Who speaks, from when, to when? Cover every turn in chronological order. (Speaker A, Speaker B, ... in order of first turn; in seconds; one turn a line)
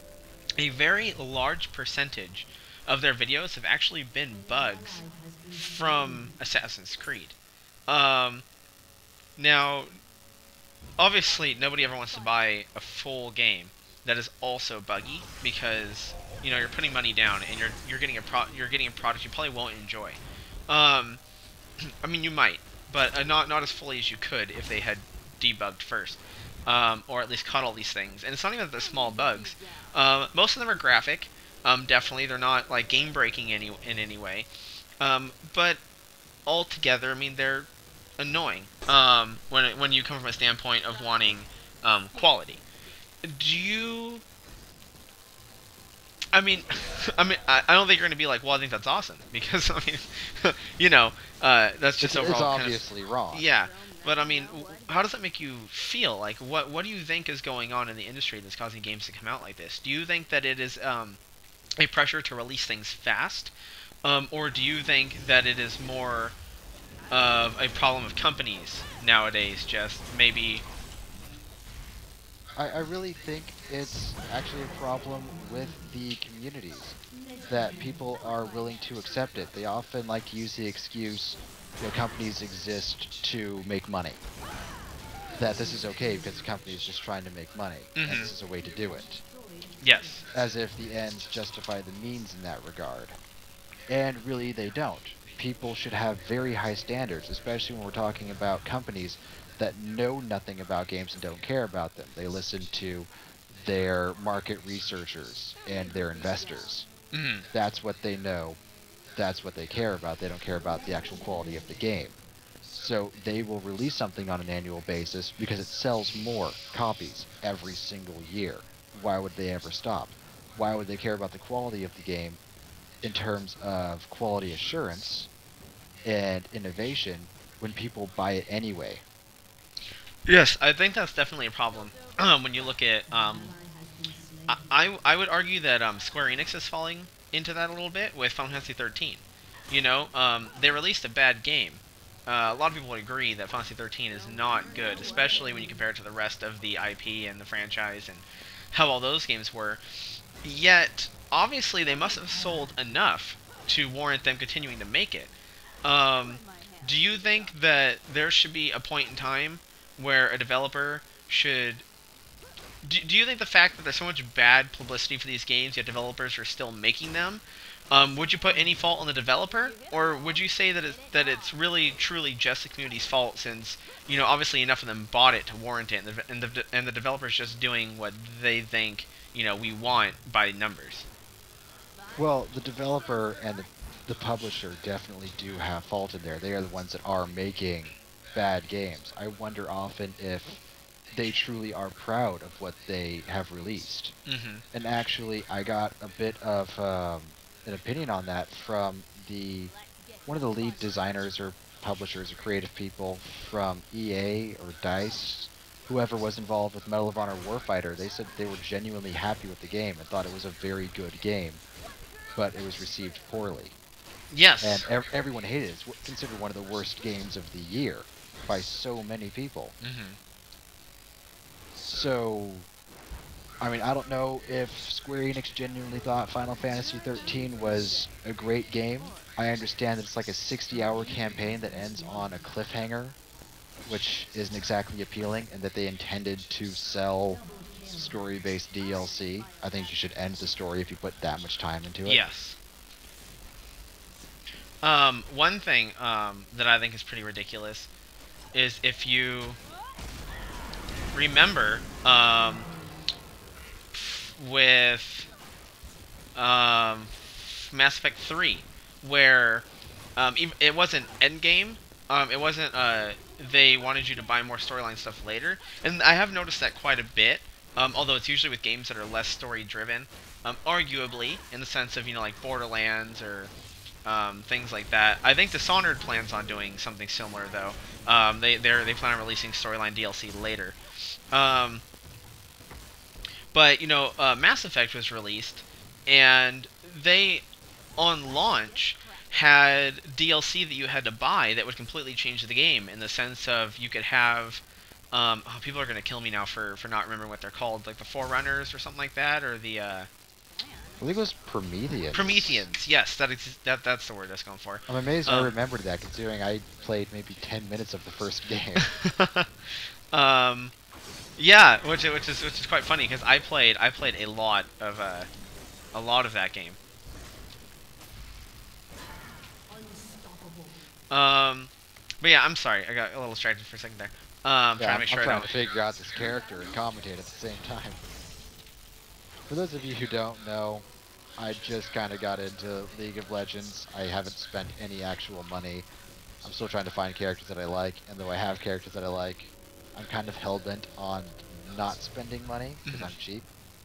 Speaker A: 0.6-7.4
Speaker A: 7.9-8.4
Speaker A: 9.4-9.9
Speaker A: 11.0-21.2
Speaker A: 21.8-34.5
Speaker A: 35.0-35.8
Speaker A: 36.5-42.6
Speaker A: 43.2-44.2
Speaker A: 46.3-61.2
Speaker B: 52.0-53.5
Speaker A: 61.8-63.5
Speaker A: 64.0-66.3
Speaker A: 67.1-70.7
Speaker B: 72.6-77.0
Speaker B: 77.5-84.2
Speaker B: 85.4-89.2
Speaker A: 88.0-88.3
Speaker A: 89.8-90.2
Speaker B: 90.3-93.2
Speaker B: 93.9-106.9
Speaker A: 107.1-107.5
Speaker B: 107.5-108.6
Speaker B: 109.2-112.2
Speaker B: 112.7-122.4
Speaker B: 123.0-125.3
Speaker B: 126.0-129.0
Speaker A: 130.3-133.6
Speaker A: 134.5-149.8
Speaker A: 150.4-155.3
Speaker A: 155.8-161.8
Speaker A: 162.8-181.1
Speaker B: 182.2-190.6
Speaker B: 191.1-194.1
Speaker A: 194.3-194.6
Speaker B: 194.7-199.7
Speaker B: 200.3-211.6
Speaker B: 212.4-213.8
Speaker A: 214.3-214.8
Speaker B: 214.6-219.8
Speaker A: 219.8-220.2
Speaker B: 221.9-222.7
Speaker B: 223.6-233.2
Speaker B: 233.9-242.2
Speaker A: 242.1-242.6
Speaker A: 244.8-247.9
Speaker A: 248.5-249.6
Speaker A: 251.1-252.7
Speaker A: 253.9-255.3
Speaker A: 256.4-273.5
Speaker A: 274.1-280.8
Speaker A: 281.3-281.8
Speaker A: 283.5-287.4
Speaker A: 288.0-300.1
Speaker B: 301.0-302.6
Speaker A: 302.1-305.5
Speaker B: 304.9-308.9
Speaker A: 308.8-309.5
Speaker A: 310.1-310.7
Speaker A: 311.4-315.3
Speaker A: 315.9-316.8
Speaker A: 321.1-325.5
Speaker B: 324.8-328.0
Speaker B: 329.5-330.9
Speaker B: 331.4-335.9
Speaker B: 336.4-343.5
Speaker A: 342.9-343.1